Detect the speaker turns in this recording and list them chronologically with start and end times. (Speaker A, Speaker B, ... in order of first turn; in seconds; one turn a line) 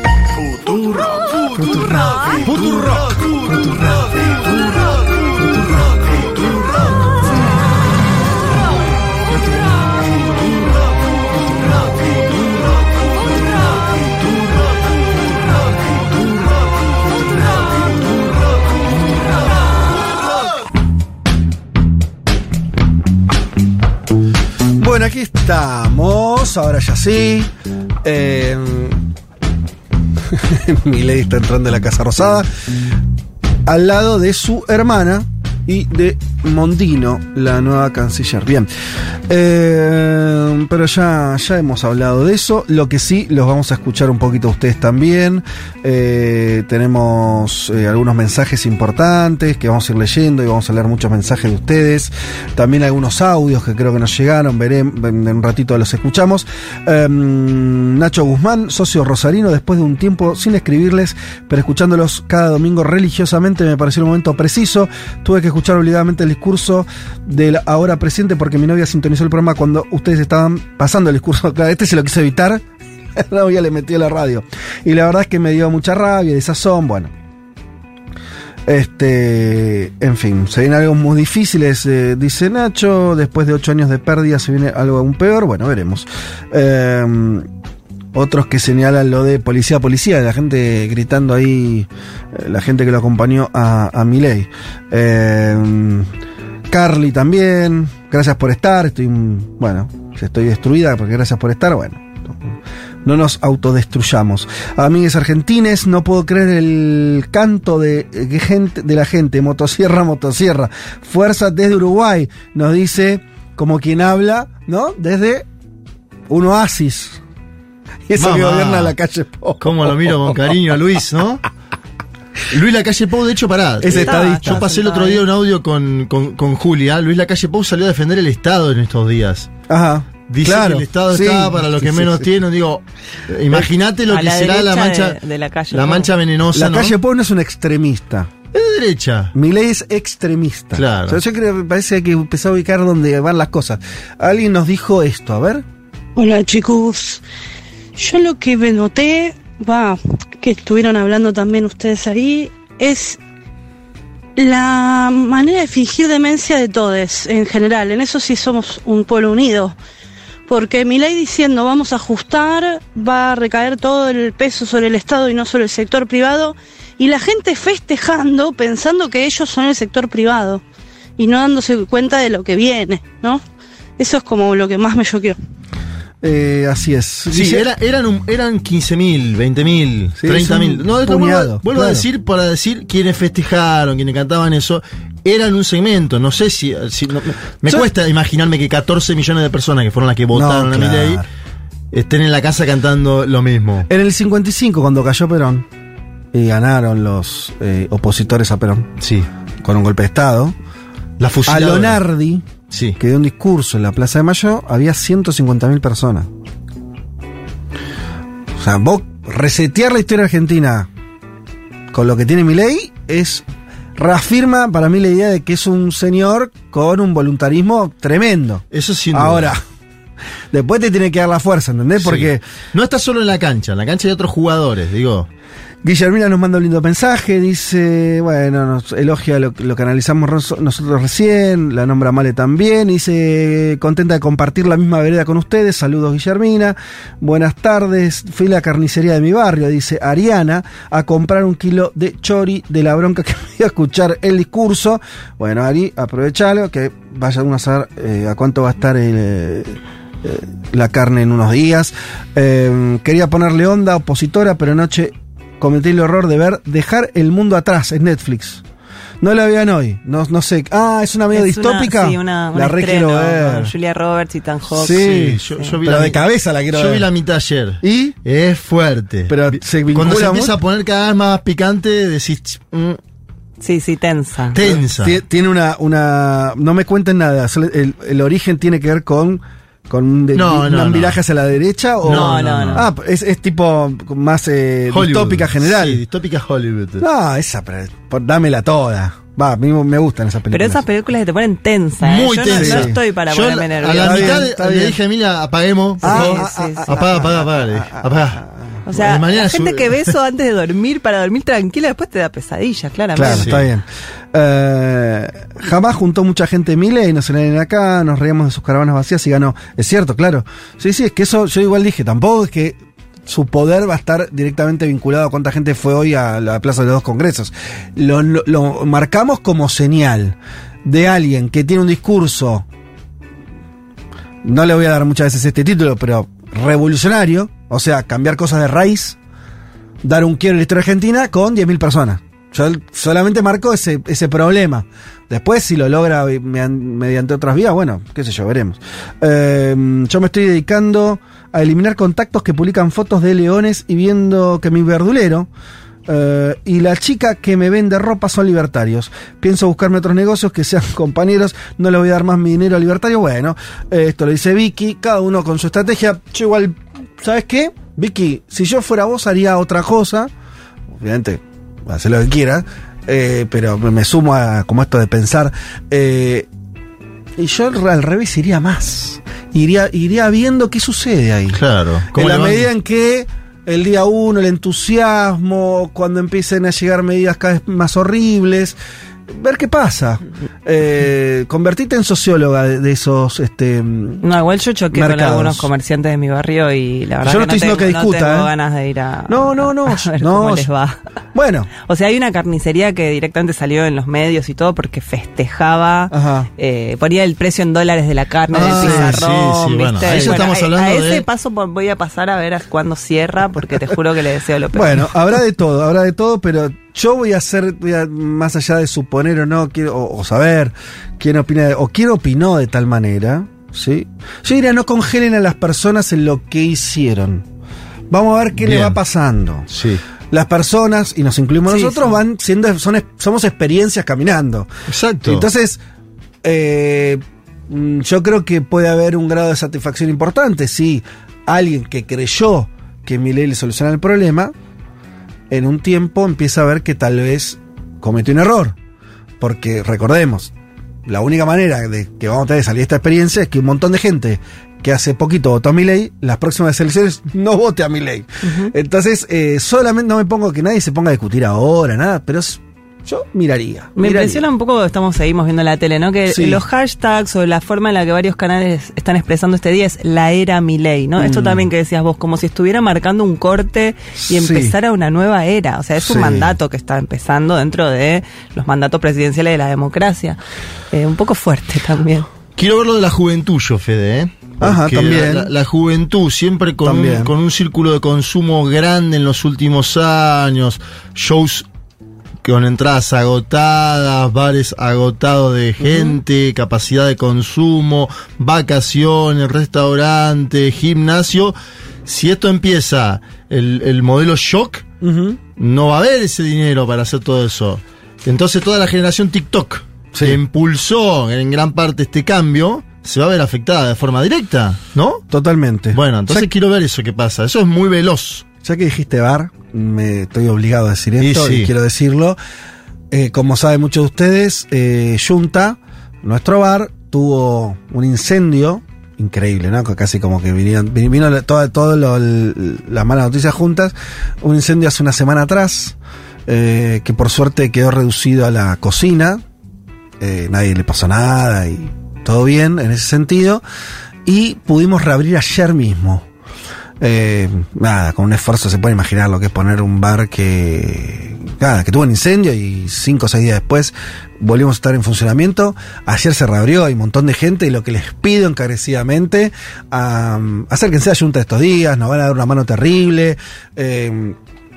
Speaker A: 0.6-3.0
Speaker A: 3.5-4.8
Speaker B: 24.8-27.5
Speaker B: 28.0-29.0
Speaker B: 30.2-32.5
Speaker B: 33.6-38.7
Speaker B: 39.3-72.6
Speaker B: 73.2-77.1
Speaker B: 78.7-87.5
Speaker B: 88.1-96.1
Speaker B: 96.7-115.5
Speaker B: 116.3-117.2
Speaker B: 118.1-120.5
Speaker C: 118.2-118.9
Speaker C: 119.6-121.4
Speaker C: 122.5-129.5
Speaker B: 123.8-124.6
Speaker D: 124.0-125.2
Speaker B: 129.7-132.3
Speaker C: 130.3-135.2
Speaker D: 134.1-136.1
Speaker C: 135.7-136.9
Speaker B: 136.5-138.3
Speaker C: 138.5-139.3
Speaker B: 139.3-145.6
Speaker C: 140.7-141.2
Speaker E: 146.2-147.2
Speaker E: 147.9-153.2
Speaker E: 154.4-159.7
Speaker E: 160.5-170.6
Speaker E: 171.2-173.4
Speaker E: 174.0-175.4
Speaker B: 176.2-177.7
Speaker C: 177.3-191.2
Speaker B: 180.2-182.0
Speaker B: 190.3-191.2
Speaker C: 191.9-193.9
Speaker B: 193.9-195.7
Speaker B: 196.3-198.9
Speaker C: 199.0-199.3
Speaker B: 199.6-200.5
Speaker C: 201.2-202.0
Speaker B: 201.4-206.3
Speaker C: 202.7-203.0
Speaker B: 208.6-210.9
Speaker B: 211.9-213.4
Speaker B: 213.9-219.6
Speaker C: 218.7-219.5
Speaker B: 220.5-222.4
Speaker C: 222.0-225.3
Speaker B: 225.8-258.6
Speaker B: 259.2-263.7
Speaker D: 261.3-265.8
Speaker B: 264.7-267.1
Speaker C: 264.8-273.0
Speaker B: 267.8-268.2
Speaker B: 269.3-270.6
Speaker D: 273.6-274.6
Speaker C: 274.5-275.2
Speaker B: 274.6-286.0
Speaker C: 280.3-281.2
Speaker C: 282.0-282.9
Speaker D: 282.1-282.9
Speaker C: 284.9-287.0
Speaker B: 287.0-290.8
Speaker D: 290.5-294.5
Speaker C: 292.0-300.1
Speaker B: 292.4-293.0
Speaker B: 294.0-295.0
Speaker D: 296.0-297.0
Speaker B: 296.0-298.5
Speaker D: 298.9-303.5
Speaker B: 303.1-322.6
Speaker C: 303.2-303.7
Speaker B: 324.4-329.2
Speaker B: 330.0-345.5
Speaker B: 346.1-360.3
Speaker B: 361.0-366.5
Speaker B: 367.4-371.6
Speaker C: 371.5-372.7
Speaker B: 372.1-378.8
Speaker B: 379.3-384.2
Speaker D: 384.2-391.0
Speaker B: 384.9-385.7
Speaker B: 387.2-388.5
Speaker B: 389.3-390.7
Speaker B: 391.3-391.7
Speaker D: 391.8-405.1
Speaker B: 396.1-396.5
Speaker B: 398.5-399.2
Speaker C: 398.5-401.2
Speaker B: 400.0-400.4
Speaker B: 404.7-417.4
Speaker B: 418.1-419.7
Speaker C: 418.6-419.0
Speaker C: 419.7-420.0
Speaker B: 420.3-424.7
Speaker D: 421.7-422.1
Speaker C: 424.9-425.5
Speaker B: 425.2-425.8
Speaker B: 426.4-434.5
Speaker B: 435.5-438.8
Speaker B: 439.4-440.5
Speaker B: 441.1-454.4
Speaker D: 448.4-448.7
Speaker D: 454.0-470.4
Speaker B: 456.3-456.6
Speaker B: 461.2-461.7
Speaker B: 464.2-464.7
Speaker B: 466.0-466.5
Speaker D: 470.9-472.3
Speaker C: 472.6-481.6
Speaker B: 474.6-475.5
Speaker B: 476.8-477.3
Speaker C: 482.4-491.5
Speaker B: 485.8-486.2
Speaker C: 492.1-494.8
Speaker B: 495.0-495.4
Speaker C: 495.6-505.2
Speaker B: 500.1-500.4
Speaker B: 505.3-506.5
Speaker C: 505.9-508.4
Speaker B: 508.6-512.4
Speaker C: 511.2-511.7
Speaker B: 513.1-529.4
Speaker B: 530.2-533.6
Speaker B: 534.2-536.2
Speaker B: 537.0-554.4